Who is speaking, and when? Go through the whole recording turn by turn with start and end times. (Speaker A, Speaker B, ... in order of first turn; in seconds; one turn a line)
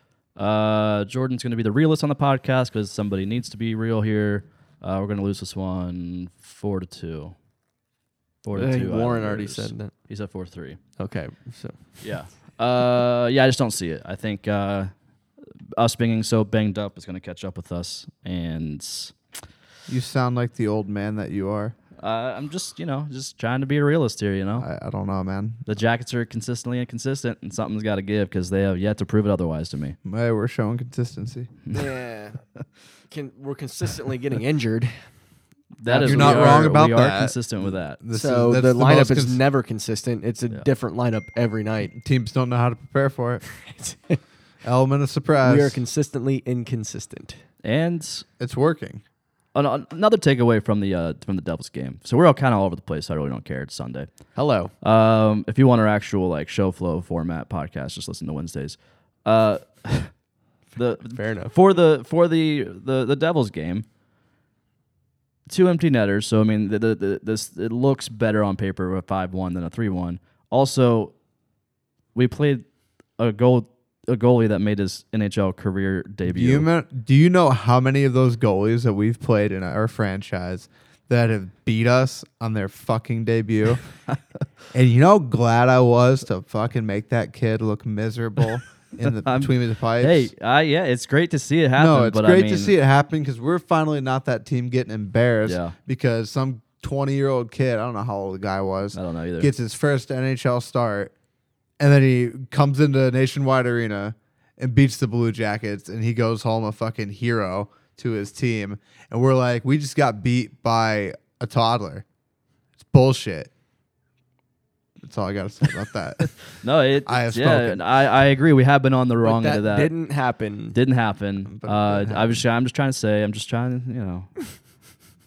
Speaker A: 0.4-7.3
Speaker A: 8.4-10.8
Speaker B: 8.5-9.9
Speaker B: 11.0-11.8
Speaker A: 12.0-14.9
Speaker A: 15.8-19.2
Speaker C: 19.9-21.8
Speaker A: 22.0-24.7
Speaker C: 24.6-25.6
Speaker A: 25.7-30.0
Speaker C: 30.1-31.5
Speaker B: 31.7-32.4
Speaker B: 33.1-35.0
Speaker A: 35.8-38.0
Speaker B: 35.9-36.6
Speaker C: 35.9-39.4
Speaker B: 38.1-41.9
Speaker C: 42.0-43.4
Speaker B: 43.5-44.2
Speaker C: 44.6-45.8
Speaker B: 45.4-47.4
Speaker A: 47.6-48.2
Speaker C: 48.4-49.0
Speaker A: 49.5-54.1
Speaker B: 54.4-54.7
Speaker A: 54.8-60.1
Speaker A: 60.7-63.9
Speaker B: 61.1-61.5
Speaker A: 65.5-71.2
Speaker A: 72.2-72.6
Speaker A: 73.2-76.7
Speaker C: 76.3-83.8
Speaker C: 84.7-90.3
Speaker A: 89.2-92.7
Speaker C: 91.8-101.1
Speaker A: 95.5-95.8
Speaker A: 98.9-99.5
Speaker C: 101.8-112.0
Speaker C: 112.8-113.5
Speaker C: 115.0-116.5
Speaker A: 116.6-120.0
Speaker C: 117.1-117.8
Speaker B: 119.2-120.8
Speaker A: 120.7-124.4
Speaker C: 121.5-122.4